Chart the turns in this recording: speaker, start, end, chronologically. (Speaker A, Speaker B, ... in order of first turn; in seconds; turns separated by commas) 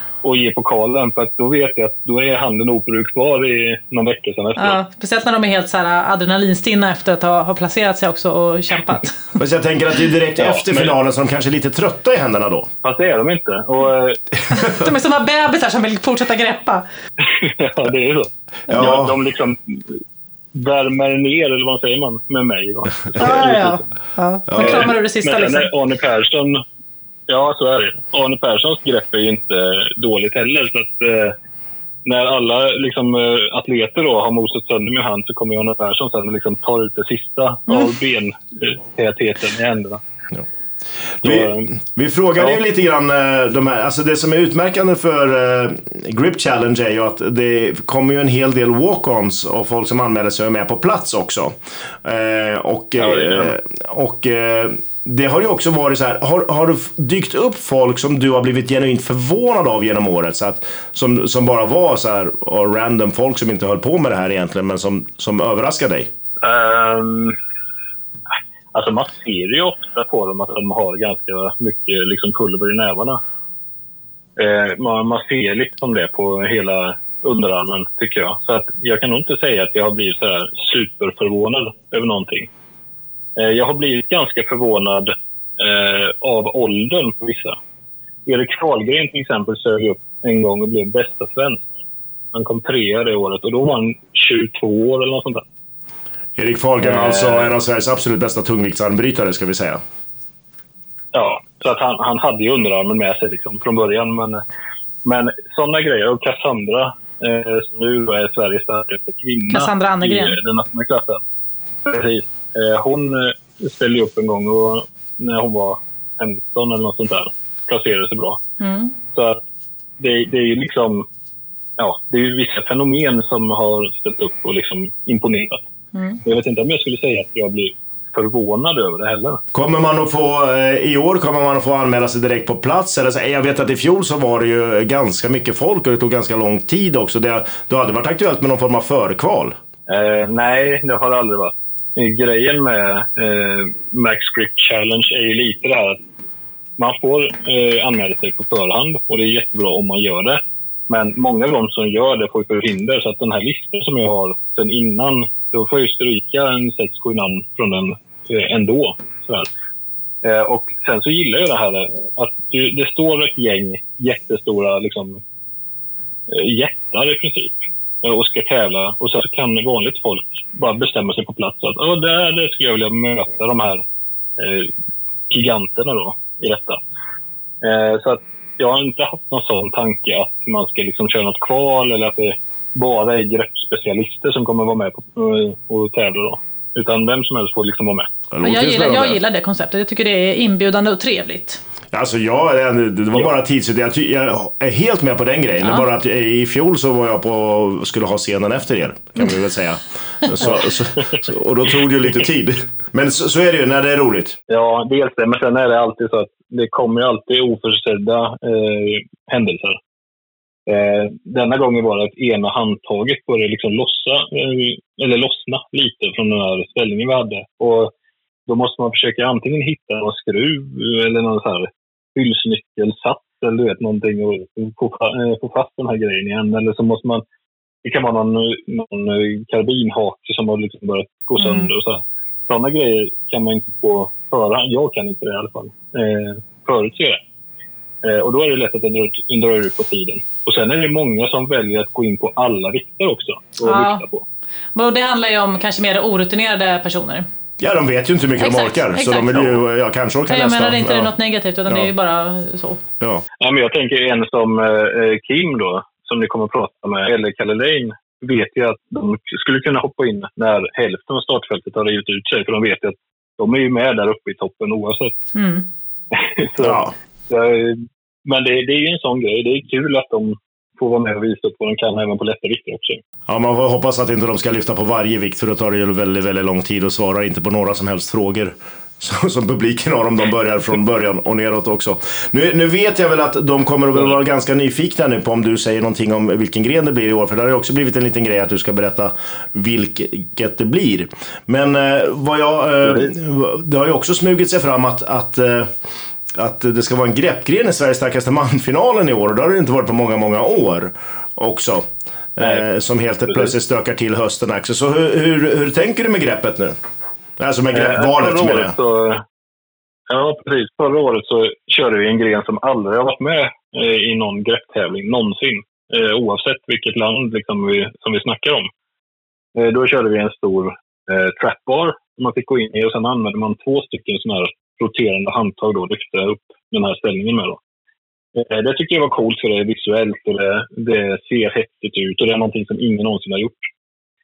Speaker A: 0.2-4.8, Speaker B: 4.6-9.1, Speaker C: 9.4-12.7, Speaker A: 10.4-10.9, Speaker A: 12.8-14.2, Speaker B: 14.5-16.9, Speaker A: 17.4-19.9, Speaker C: 18.7-19.1, Speaker A: 20.5-23.8, Speaker B: 23.2-25.7, Speaker C: 24.5-24.9, Speaker A: 24.6-26.6, Speaker A: 27.3-31.4, Speaker A: 32.0-40.0, Speaker C: 41.2-66.1, Speaker A: 41.2-41.7, Speaker A: 53.0-53.5, Speaker A: 66.4-67.4, Speaker A: 68.7-73.2, Speaker A: 74.4-82.5, Speaker A: 83.4-87.6, Speaker A: 88.3-91.7, Speaker A: 92.3-95.5, Speaker C: 96.4-99.8, Speaker A: 96.8-97.5, Speaker A: 101.1-104.4, Speaker A: 105.0-111.2, Speaker B: 109.5-110.4, Speaker A: 111.8-118.4, Speaker B: 118.6-119.0, Speaker A: 119.1-119.4, Speaker A: 120.0-121.1, Speaker A: 121.8-125.6, Speaker B: 126.0-126.2, Speaker A: 126.2-129.4, Speaker C: 129.5-139.6, Speaker A: 139.9-146.0, Speaker A: 146.8-159.5, Speaker A: 160.2-165.2, Speaker A: 166.3-173.8, Speaker A: 174.4-174.7, Speaker A: 175.3-176.8, Speaker A: 177.6-188.1, Speaker C: 188.3-189.2, Speaker B: 188.4-191.6, Speaker C: 191.9-204.4, Speaker A: 204.5-209.8, Speaker A: 210.7-217.9, Speaker A: 218.5-227.2, Speaker A: 227.8-237.2, Speaker B: 231.4-231.7, Speaker A: 238.0-244.2, Speaker B: 243.6-244.0, Speaker B: 244.8-247.3, Speaker C: 247.6-251.1, Speaker B: 248.4-249.6, Speaker B: 250.3-252.8, Speaker A: 253.4-265.2, Speaker B: 265.4-265.7, Speaker A: 266.1-273.0, Speaker C: 266.6-266.9, Speaker C: 273.3-295.7, Speaker C: 296.4-306.8, Speaker C: 307.4-308.8, Speaker A: 307.7-309.2, Speaker A: 310.1-318.7, Speaker A: 319.6-327.6, Speaker A: 328.4-333.7